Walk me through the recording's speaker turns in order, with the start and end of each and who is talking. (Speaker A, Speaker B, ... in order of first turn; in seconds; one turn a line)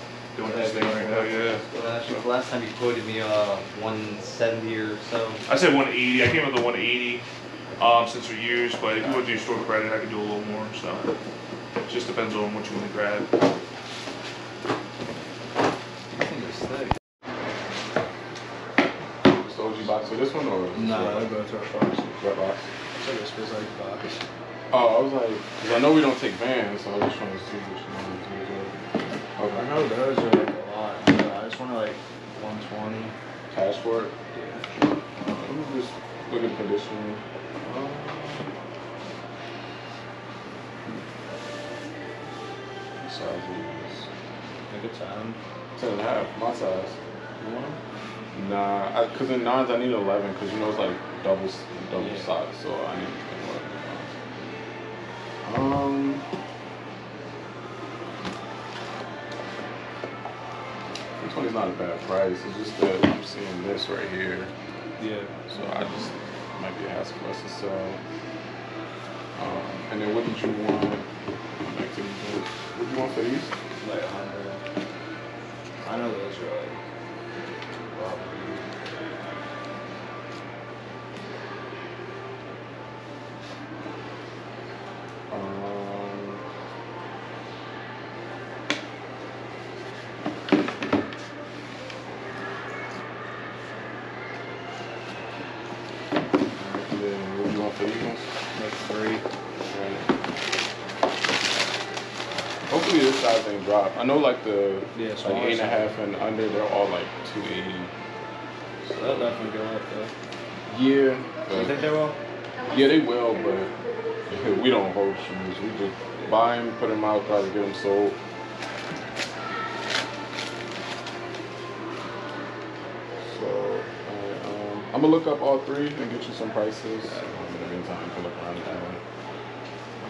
Speaker A: 0.3-2.1
Speaker B: 0.5-5.4
Speaker A: 5.5-7.2
Speaker A: 7.8-11.1
Speaker A: 11.9-13.3
Speaker C: 19.3-21.3
Speaker D: 20.8-22.1
Speaker C: 22.2-22.6
Speaker D: 23.0-24.2
Speaker C: 24.7-28.7
Speaker C: 29.4-29.7
Speaker D: 29.5-33.1
Speaker C: 33.5-34.1
Speaker D: 34.3-34.6
Speaker C: 35.3-37.2
Speaker D: 37.6-38.5
Speaker D: 43.0-44.0
Speaker D: 44.7-45.4
Speaker C: 45.8-46.9
Speaker D: 47.4-47.8
Speaker C: 48.3-54.1
Speaker D: 52.0-52.3
Speaker C: 55.4-56.2
Speaker C: 61.2-64.5
Speaker D: 65.0-65.3
Speaker C: 65.5-68.0
Speaker C: 69.4-71.0
Speaker C: 71.6-73.5
Speaker D: 73.8-74.6
Speaker D: 75.8-76.8
Speaker D: 78.0-78.7
Speaker C: 85.3-86.4
Speaker C: 96.5-98.3
Speaker D: 98.5-99.2
Speaker C: 99.7-100.0
Speaker C: 102.7-107.9
Speaker D: 104.9-105.9
Speaker D: 108.9-110.1
Speaker C: 110.7-111.8
Speaker D: 111.5-112.2
Speaker C: 112.7-113.7
Speaker C: 114.3-118.2
Speaker C: 123.3-129.0